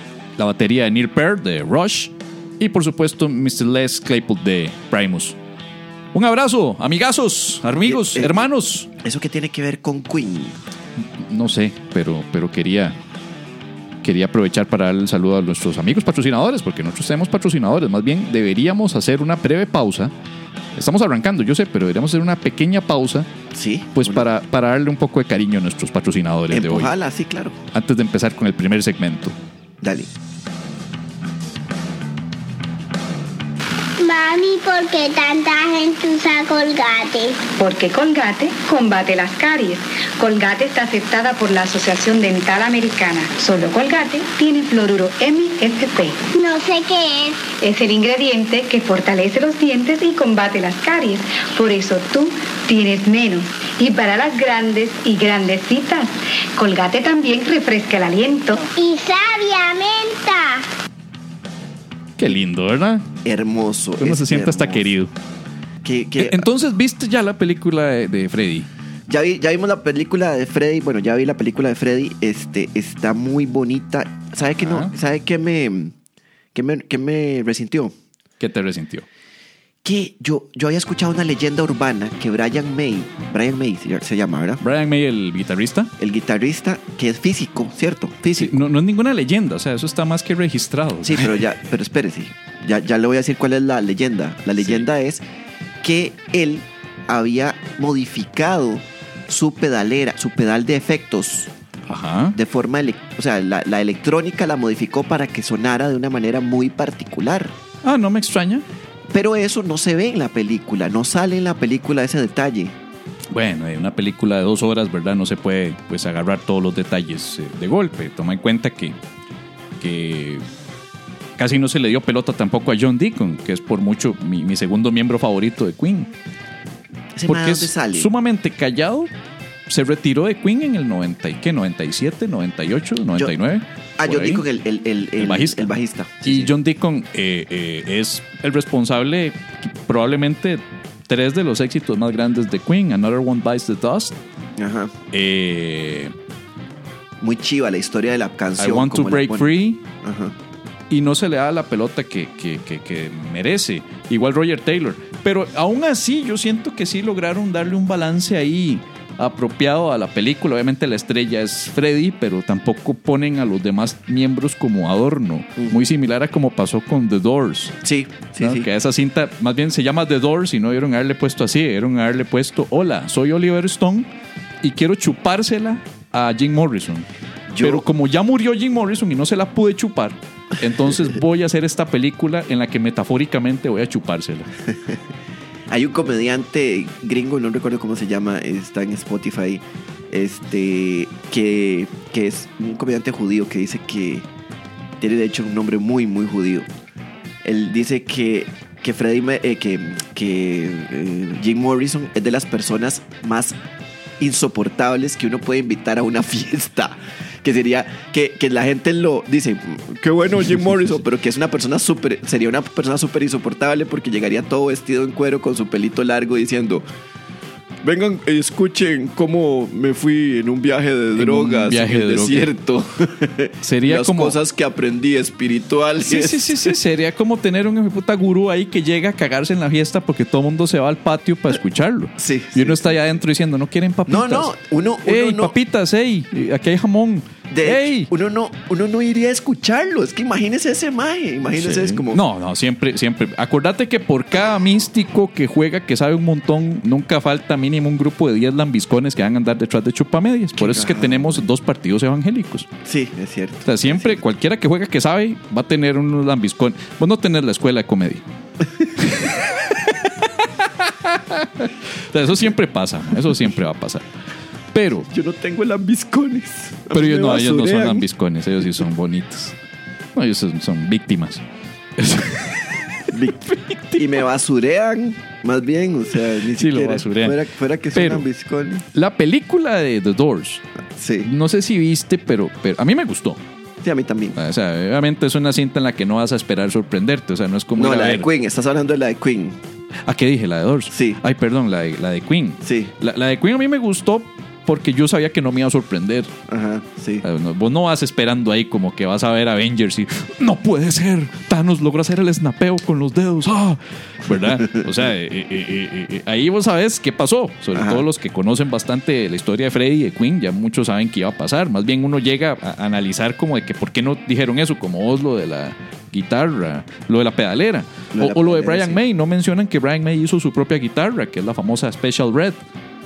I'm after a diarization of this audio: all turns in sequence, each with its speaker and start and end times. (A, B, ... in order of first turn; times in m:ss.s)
0:00.4-0:05.4 A
0:06.1-0:08.9 A
0:07.9-0:10.6 B
0:11.0-0:13.0 A
0:14.0-0:20.1 A
0:20.8-0:23.3 A
0:23.5-0:24.3 B
0:24.0-0:26.9 A
0:26.5-0:27.6 B
0:27.7-0:29.4 A
0:29.8-0:30.1 B
0:34.0-0:37.4 C
0:37.6-0:46.2 D
0:46.3-0:47.5 C
0:47.6-0:58.7 D
0:58.8-1:00.7 C
1:02.2-1:03.1 A
1:03.2-1:04.9 B
1:04.0-1:05.1 A
1:05.8-1:06.5 B
1:06.2-1:08.7 A
1:09.1-1:16.0 B
1:14.6-1:14.9 A
1:16.5-1:17.9 B
1:18.4-1:19.1 A
1:19.8-1:24.6 B
1:24.6-1:25.9 A
1:26.0-1:28.6 B
1:28.3-1:31.4 A
1:31.0-1:35.2 B
1:34.6-1:34.8 A
1:35.8-1:41.5 B
1:41.9-1:42.4 A
1:42.3-1:47.6 B
1:47.8-1:48.6 A
1:49.1-1:52.8 B
1:53.3-1:59.0 A
1:59.8-2:00.4 A
2:01.4-2:06.1 A
2:07.2-2:08.1 B
2:07.3-2:09.1 A
2:09.7-2:14.4 A
2:14.0-2:16.5 B
2:15.2-2:24.2 A
2:24.6-2:24.9 B
2:25.1-2:26.1 A
2:27.2-2:29.5 B
2:28.6-2:29.8 A
2:30.0-2:30.4 B
2:30.9-2:47.8 A
2:47.8-2:48.7 B
2:48.4-2:54.1 A
2:54.6-2:57.1 A
2:57.5-2:57.8 B
2:57.6-3:04.5 A
3:05.7-3:14.3 B
3:15.0-3:16.7 B
3:17.4-3:23.6 B
3:24.2-3:36.8 B
3:37.8-3:46.8 B
3:41.2-3:42.5 A
3:43.6-3:44.4 A
3:46.0-3:54.5 A
3:52.2-3:53.1 B
3:54.1-3:55.6 B
3:55.0-3:58.1 A
3:57.5-4:02.2 B
4:01.6-4:12.7 A
4:10.6-4:11.4 B
4:12.8-4:14.2 B
4:13.6-4:18.2 A
4:19.0-4:24.1 A
4:24.7-4:25.1 A
4:25.1-4:28.1 B
4:26.9-4:29.6 A
4:30.2-4:31.4 A
4:32.0-4:34.2 A
4:33.1-4:33.4 B
4:34.0-4:38.9 B
4:36.5-4:37.4 A
4:37.9-4:38.3 A
4:38.9-4:40.6 A
4:41.0-4:41.3 B
4:41.2-4:43.4 A
4:43.8-4:44.4 B
4:44.4-4:48.3 A
4:47.8-4:49.6 B
4:50.0-4:56.3 A
4:50.9-4:51.2 B
4:52.6-4:52.9 B
4:56.5-4:57.2 B
4:57.2-5:22.6 A
5:04.5-5:04.9 B
5:07.8-5:08.0 B
5:18.1-5:19.0 B